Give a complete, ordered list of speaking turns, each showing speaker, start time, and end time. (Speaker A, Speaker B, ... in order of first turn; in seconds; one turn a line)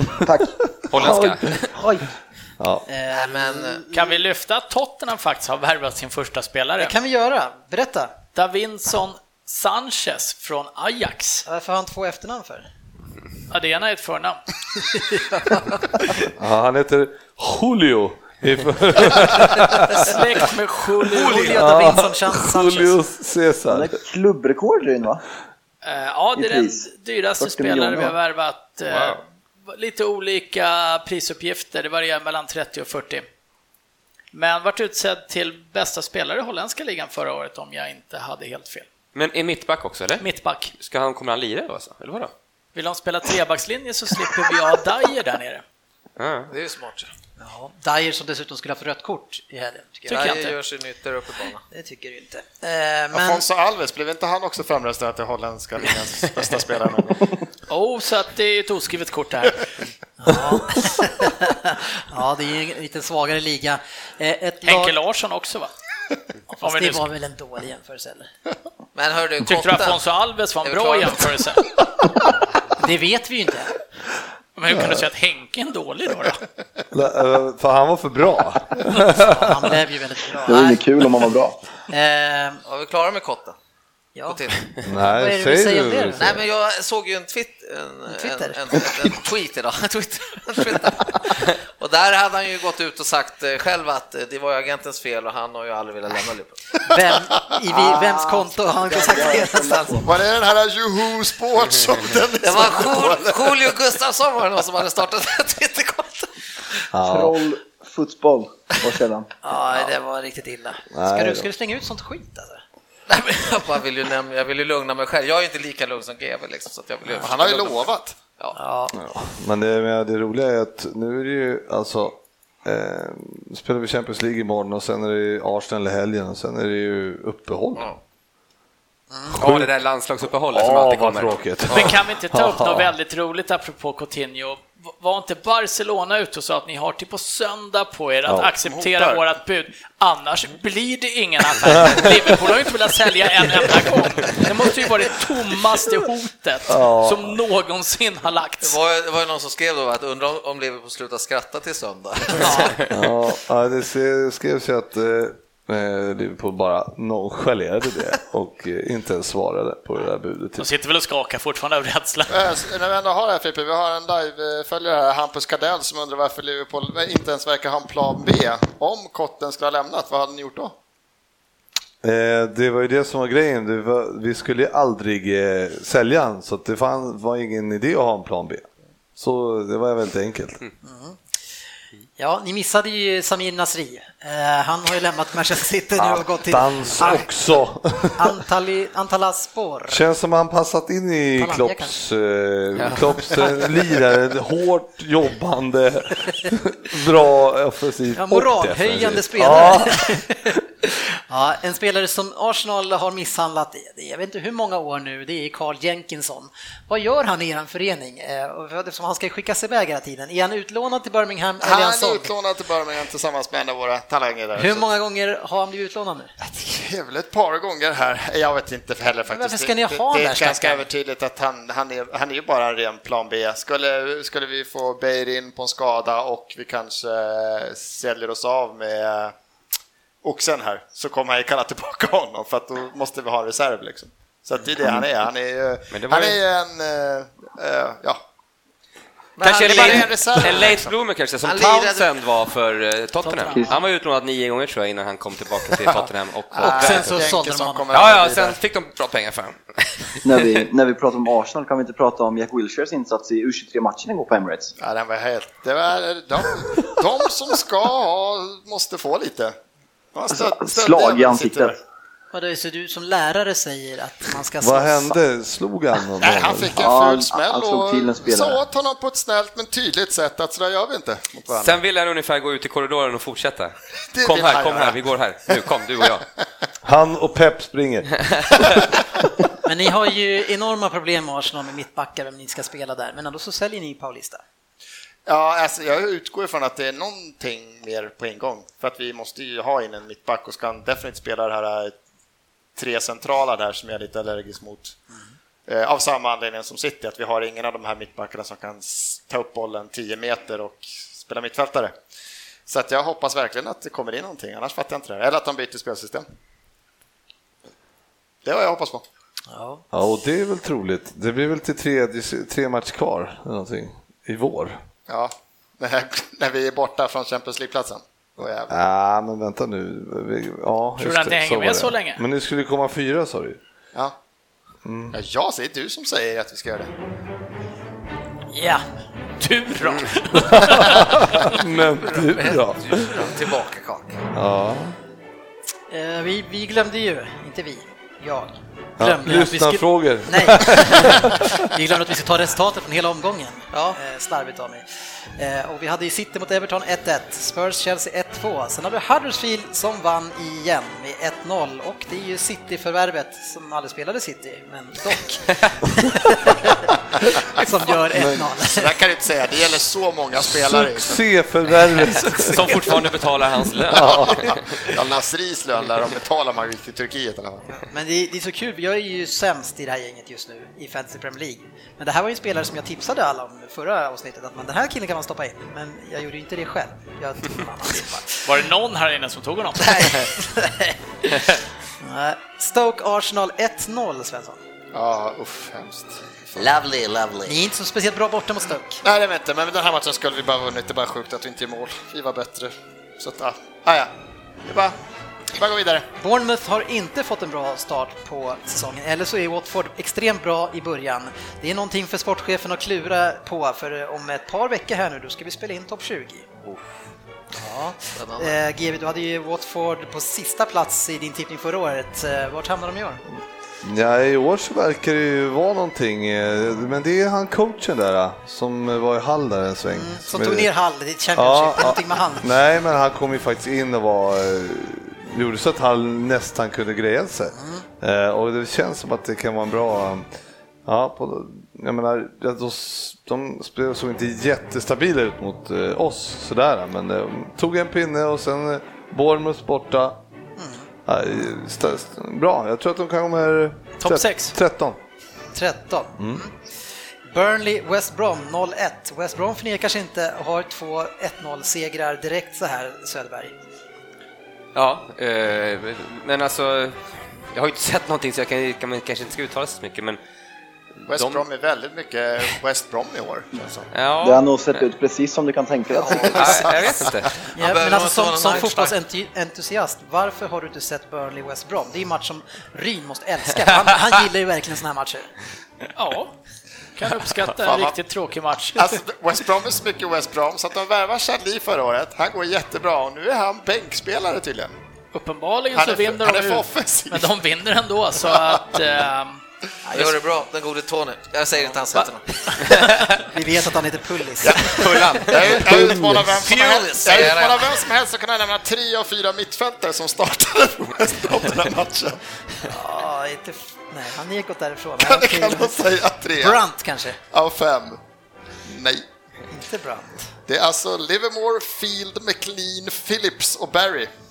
Speaker A: 0.2-0.5
Speaker B: 0.8-1.7
Speaker C: 0.9-1.5
Speaker B: 2.6-2.9
Speaker D: 2.9-4.2
Speaker E: 3.1-3.8
Speaker F: 3.9-6.9
Speaker D: 6.8-8.1
Speaker F: 8.3-11.4
Speaker D: 11.4-12.7
Speaker F: 13.5-14.4
Speaker D: 14.9-16.1
Speaker B: 16.4-20.1
Speaker F: 19.9-21.7
Speaker D: 21.1-22.9
Speaker B: 21.5-23.9
Speaker A: 23.7-25.2
Speaker F: 25.8-33.2
Speaker A: 26.3-26.9
Speaker A: 27.4-28.1
Speaker C: 28.9-29.2
Speaker F: 34.3-38.9
Speaker C: 39.1-42.3
Speaker F: 40.2-40.7
Speaker F: 42.7-45.6
Speaker C: 46.2-46.5
Speaker E: 46.5-47.1
Speaker D: 47.4-50.5
Speaker E: 50.1-51.6
Speaker D: 51.7-53.4
Speaker G: 53.1-57.3
Speaker F: 57.7-59.6
Speaker D: 60.2-65.0
Speaker F: 64.6-65.7
Speaker D: 66.5-68.3
Speaker F: 66.6-67.0
Speaker E: 68.9-70.0
Speaker F: 69.4-71.6
Speaker E: 70.6-71.3
Speaker D: 72.8-73.7
Speaker F: 74.5-76.4
Speaker B: 74.7-75.1
Speaker B: 76.9-79.6
Speaker D: 79.1-80.8
Speaker A: 80.5-81.6
Speaker D: 81.9-82.6
Speaker E: 82.6-83.5
Speaker D: 84.1-84.4
Speaker E: 84.2-84.7
Speaker B: 84.8-86.4
Speaker D: 85.0-86.2
Speaker E: 86.2-96.6
Speaker D: 88.1-88.6
Speaker D: 96.9-100.0
Speaker A: 97.7-100.1
Speaker G: 100.0-103.6
Speaker E: 102.4-106.4
Speaker B: 106.9-107.3
Speaker A: 107.0-109.3
Speaker D: 109.4-112.6
Speaker B: 110.9-111.5
Speaker E: 113.1-118.6
Speaker G: 117.2-118.2
Speaker D: 118.5-118.9
Speaker B: 118.9-127.9
Speaker D: 129.1-129.4
Speaker B: 129.3-129.7
Speaker C: 129.3-131.9
Speaker B: 130.5-132.9
Speaker F: 131.7-148.8
Speaker B: 138.2-138.5
Speaker G: 138.6-139.2
Speaker B: 141.6-142.2
Speaker B: 146.7-147.4
Speaker E: 148.6-152.8
Speaker D: 152.4-152.8
Speaker B: 152.9-160.7
Speaker F: 160.6-162.4
Speaker G: 162.3-170.8
Speaker B: 172.0-178.6
Speaker B: 179.2-180.6
Speaker D: 180.8-181.2
Speaker D: 182.2-187.2
Speaker B: 186.4-188.3
Speaker D: 188.2-190.0
Speaker B: 189.9-200.2
Speaker D: 191.4-191.9
Speaker D: 198.1-212.3
Speaker G: 211.6-214.9
Speaker D: 214.6-216.3
Speaker G: 216.4-229.3
Speaker D: 219.3-220.8
Speaker G: 230.2-238.2
Speaker C: 235.9-236.4
Speaker E: 239.4-240.4
Speaker G: 239.4-240.9
Speaker C: 239.4-247.2
Speaker E: 241.4-242.1
Speaker F: 243.2-243.7
Speaker G: 245.9-248.6
Speaker D: 246.6-247.8
Speaker C: 247.9-250.6
Speaker A: 250.2-254.7
Speaker G: 254.8-259.6
Speaker G: 260.1-261.8
Speaker A: 260.3-261.8
Speaker D: 262.3-265.2
Speaker B: 264.6-266.8
Speaker G: 266.2-271.8
Speaker A: 266.8-268.6
Speaker C: 271.6-276.3
Speaker G: 274.1-275.0
Speaker B: 276.8-278.8
Speaker D: 279.6-284.4
Speaker G: 285.2-292.0
Speaker G: 292.8-294.9
Speaker G: 295.7-301.9
Speaker G: 302.7-306.2
Speaker G: 308.4-309.0
Speaker D: 309.5-309.8
Speaker B: 309.9-314.8
Speaker G: 315.1-318.7
Speaker B: 318.7-323.6
Speaker F: 321.0-322.2
Speaker B: 324.8-325.2
Speaker G: 325.1-326.9
Speaker D: 328.5-328.8
Speaker F: 329.4-331.6
Speaker B: 330.4-333.2
Speaker E: 332.0-334.2
Speaker B: 334.3-334.9
Speaker D: 335.9-344.8
Speaker B: 339.0-341.5
Speaker E: 343.7-344.0
Speaker D: 345.4-356.8
Speaker D: 357.5-358.9
Speaker B: 358.1-358.4
Speaker G: 358.6-361.2
Speaker B: 360.4-362.5
Speaker C: 362.2-364.6
Speaker B: 363.9-364.5
Speaker G: 363.9-367.6
Speaker D: 367.7-378.5
Speaker F: 378.4-380.1
Speaker D: 379.8-380.9
Speaker D: 382.0-384.6
Speaker G: 384.9-386.7
Speaker E: 386.6-387.5
Speaker D: 387.4-389.0
Speaker G: 389.0-394.1
Speaker G: 394.6-394.9
Speaker G: 395.5-396.1
Speaker D: 396.2-406.4
Speaker D: 407.5-413.2
Speaker E: 408.1-408.6
Speaker B: 413.8-420.7
Speaker D: 419.9-422.5
Speaker B: 421.4-430.3
Speaker D: 427.5-427.8
Speaker B: 430.9-440.2
Speaker D: 440.6-440.9
Speaker B: 441.1-445.0
Speaker F: 444.0-444.5
Speaker D: 445.5-446.6
Speaker B: 446.2-446.4
Speaker D: 447.3-453.6
Speaker C: 454.7-460.2
Speaker C: 461.0-461.4
Speaker G: 461.1-463.9
Speaker C: 463.9-464.9
Speaker A: 464.2-466.3
Speaker E: 466.0-468.9
Speaker C: 466.2-467.3
Speaker G: 466.2-467.2
Speaker D: 467.5-475.3
Speaker F: 475.9-476.3
Speaker F: 477.0-479.0
Speaker G: 477.6-478.0
Speaker G: 478.7-484.7
Speaker F: 485.1-489.4
Speaker G: 485.7-487.3
Speaker G: 488.3-488.6
Speaker E: 489.9-492.2
Speaker D: 493.2-495.2
Speaker G: 494.4-502.2
Speaker C: 494.6-495.8
Speaker B: 495.6-496.5
Speaker E: 496.4-497.7
Speaker D: 502.6-505.7
Speaker G: 505.0-506.6
Speaker D: 506.4-507.2
Speaker G: 507.3-508.0
Speaker G: 508.6-509.1
Speaker D: 509.5-510.3
Speaker G: 510.5-514.1